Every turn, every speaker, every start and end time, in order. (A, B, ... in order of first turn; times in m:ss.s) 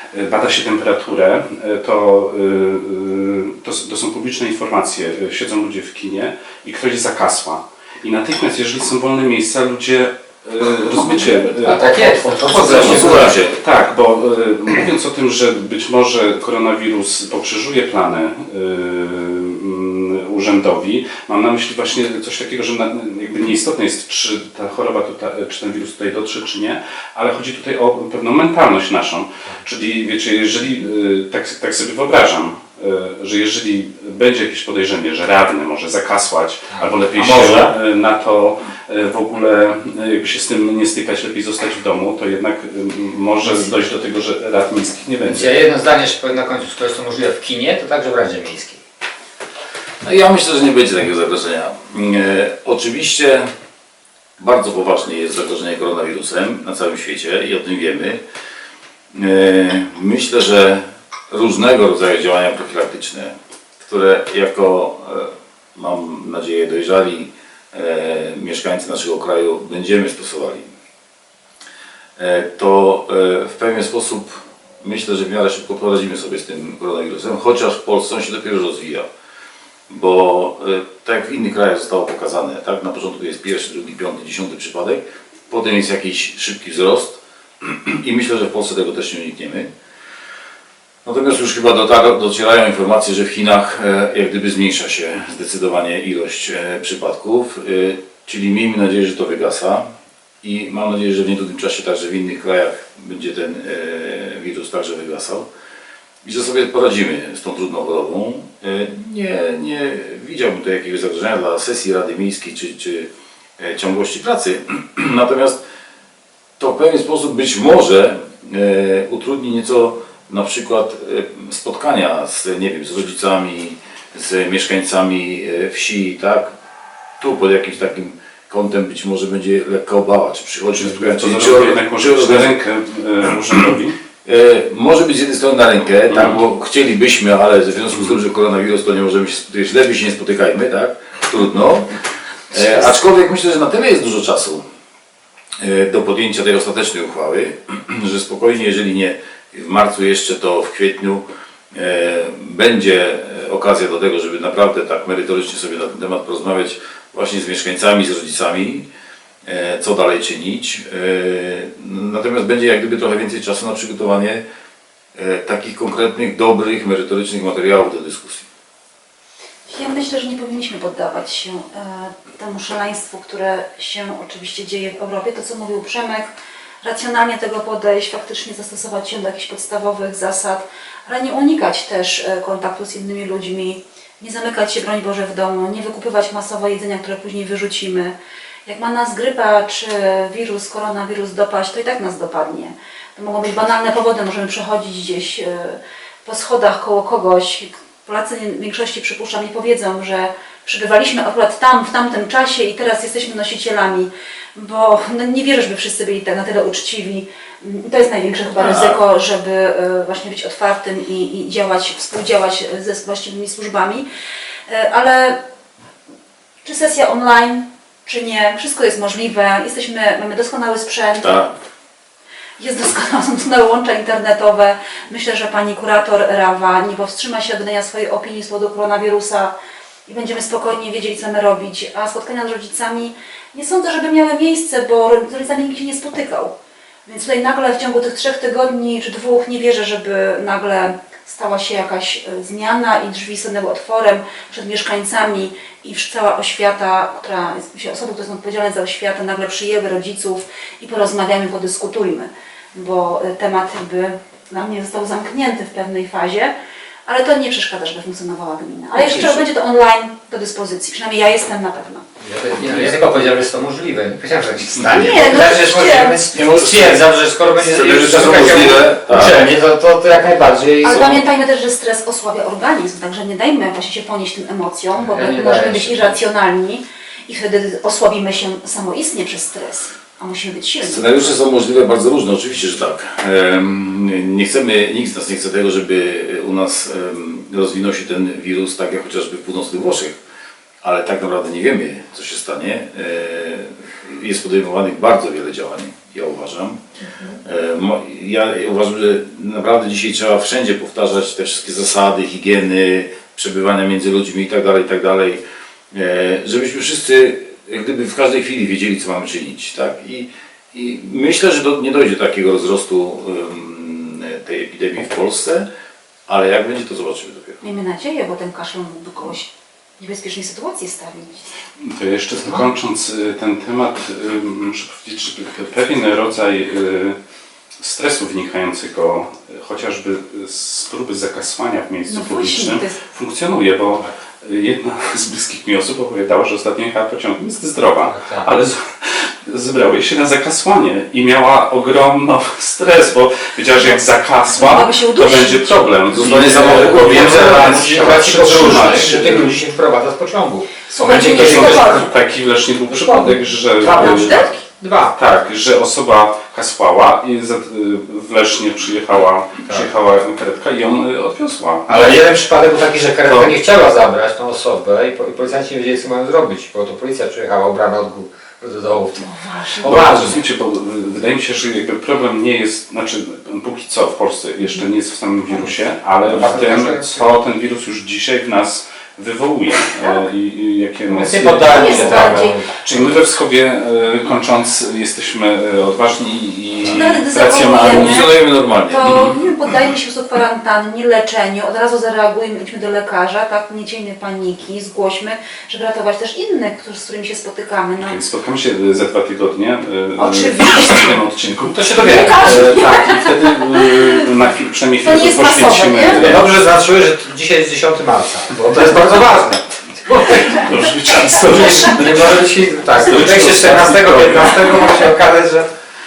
0:00.1-0:45.5 A
0:11.6-0:13.4 B
0:12.6-0:13.6 C
0:36.7-0:37.8 B
0:45.2-0:48.8 B
0:50.0-0:53.5 C
0:54.4-0:58.2 C
0:59.1-1:10.7 C
1:12.2-1:19.1 C
1:19.9-1:29.7 C
1:31.0-1:39.8 C
1:40.4-1:45.5 C
1:46.2-1:55.6 C
1:56.6-2:06.5 C
2:07.2-2:12.5 C
2:10.8-2:14.0 A
2:14.2-2:22.0 C
2:16.1-2:16.4 A
2:22.5-2:24.6 C
2:25.6-2:38.9 C
2:39.4-2:44.4 C
2:45.1-2:48.5 C
2:49.7-2:56.3 D
2:56.8-3:08.1 D
3:08.6-3:34.1 D
3:28.5-3:29.0 C
3:34.7-3:35.4 D
3:36.6-3:41.5 D
3:41.2-3:41.5 C
3:42.6-3:49.5 D
3:50.1-3:56.5 D
3:57.0-4:16.5 D
4:17.0-4:22.0 D
4:18.9-4:19.4 C
4:22.2-4:31.2 B
4:24.9-4:26.2 D
4:26.3-4:29.4 C
4:30.8-4:41.3 D
4:35.0-4:36.2 B
4:40.8-4:50.2 C
4:50.8-4:56.8 C
4:57.4-5:15.6 C
5:16.3-5:17.6 C
5:17.6-5:21.5 D
5:21.8-5:27.2 A
5:27.8-5:49.5 A
5:32.1-5:33.0 D
5:38.0-5:38.5 B
5:44.5-5:45.7 D
5:46.1-5:48.0 C
5:46.2-5:52.1 B
5:50.9-5:52.1 D
5:51.3-5:54.5 A
5:52.9-5:55.2 B
5:53.9-5:54.5 D
5:55.1-6:02.2 A
6:01.9-6:10.4 B
6:03.2-6:03.5 A
6:09.2-6:10.2 D
6:09.8-6:28.3 A
6:16.3-6:17.3 B
6:21.1-6:22.8 B
6:21.7-6:22.6 D
6:26.8-6:38.2 D
6:27.7-6:29.1 C
6:29.0-6:29.4 A
6:38.0-6:46.5 A
6:40.2-6:41.2 D
6:41.8-6:44.2 D
6:41.8-6:42.6 B
6:45.0-6:46.2 D
6:46.1-6:50.5 B
6:50.0-6:54.8 A
6:51.3-6:55.7 B